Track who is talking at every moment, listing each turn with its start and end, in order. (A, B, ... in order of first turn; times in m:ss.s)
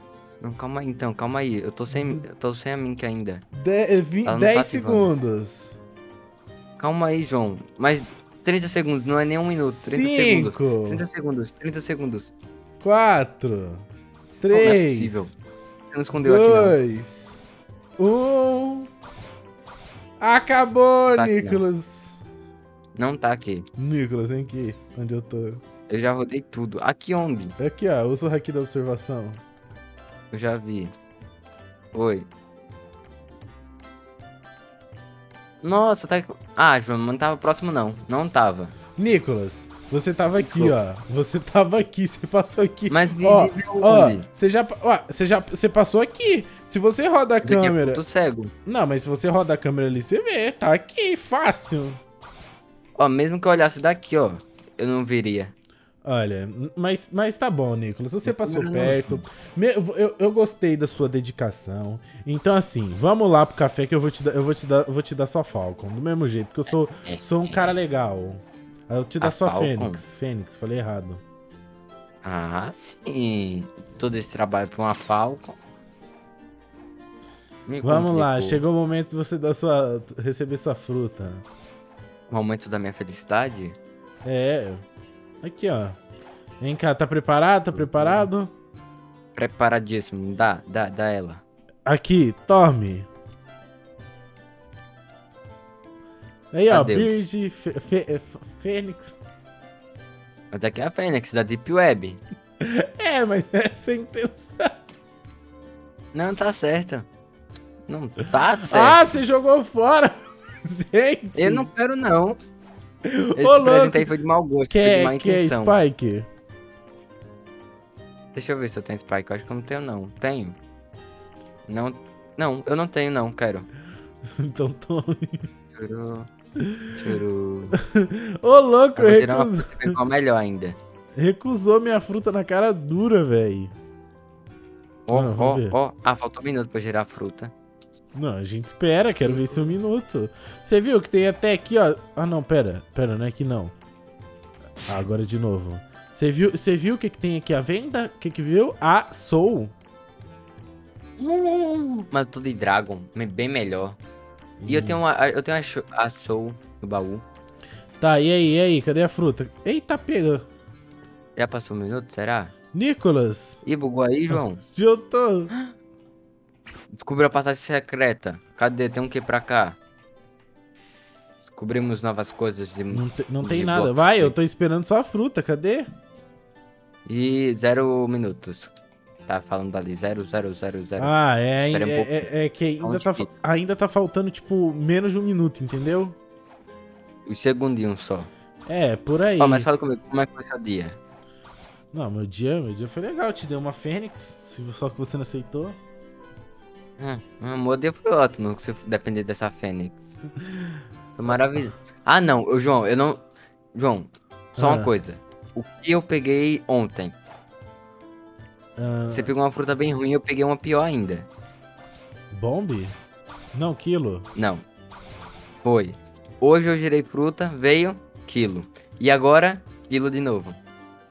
0:00.4-0:03.4 A
0:01.9-0:02.2 B
0:03.5-0:05.8 B
0:04.2-0:05.1 A
0:06.8-0:12.3 A
0:08.5-0:11.0 B
0:12.8-0:13.9 B
0:14.4-0:15.3 B
0:14.5-0:15.3 A
0:15.9-0:16.8 A
0:16.1-0:17.4 B
0:18.0-0:18.9 B
0:20.2-0:22.2 B
0:21.1-0:21.6 A
0:22.9-0:23.7 A
0:23.8-0:25.6 B
0:25.9-0:27.6 A
0:27.6-0:29.4 B
0:30.3-0:30.9 A
0:31.9-0:32.3 A
0:35.6-0:38.8 A
0:39.0-0:48.0 B
0:40.3-0:40.8 A
0:42.9-0:44.2 A
0:47.4-0:48.5 A
0:48.6-0:52.0 B
0:53.0-0:55.5 A
0:56.0-1:11.2 B
0:58.2-0:59.2 A
1:06.7-1:07.7 A
1:09.2-1:10.0 A
1:12.2-1:15.6 A
1:17.6-1:18.6 A
1:17.8-1:21.4 B
1:22.3-1:23.8 A
1:24.2-1:24.8 B
1:25.4-1:26.0 B
1:26.6-1:28.5 B
1:27.7-1:28.3 A
1:29.3-1:31.4 A
1:31.8-1:33.1 B
1:36.5-1:39.2 B
1:36.7-1:37.2 A
1:40.5-1:42.2 A
1:42.6-1:44.8 B
1:46.1-1:47.1 A
1:47.9-1:49.2 A
1:48.6-1:51.7 B
1:51.3-1:52.4 A
1:53.0-1:54.1 B
1:53.4-1:55.8 A
1:54.7-1:56.3 B
1:58.3-2:00.6 A
2:01.7-2:03.7 A
2:04.2-2:05.5 B
2:05.8-2:06.3 A
2:07.0-2:07.8 A
2:07.7-2:10.0 B
2:09.0-2:10.8 A
2:11.2-2:13.7 B
2:15.1-2:17.5 A
2:15.1-2:15.8 B
2:18.1-2:23.7 B
2:19.2-2:19.7 A
2:24.9-2:29.7 B
2:31.2-2:34.0 A
2:34.6-2:35.0 B
2:34.6-2:37.2 A
2:38.0-2:40.5 B
2:41.4-2:42.5 A
2:42.7-2:43.6 B
2:43.6-2:44.6 A
2:44.3-2:45.5 B
2:46.9-2:49.8 A
2:51.4-2:54.4 A
2:52.9-2:55.9 B
2:57.0-2:58.7 A
2:59.3-3:02.3 A
3:01.0-3:06.2 B
3:02.8-3:03.3 A
3:07.2-3:08.3 A
3:08.6-3:09.7 B
3:09.4-3:11.0 A
3:11.9-3:15.8 B
3:17.0-3:20.1 A
3:21.2-3:27.2 A
3:24.6-3:24.9 B
3:28.8-3:29.3 B
3:29.1-3:31.3 A
3:32.3-3:33.0 B
3:33.5-3:34.3 B
3:34.3-3:34.6 A
3:35.6-3:40.6 A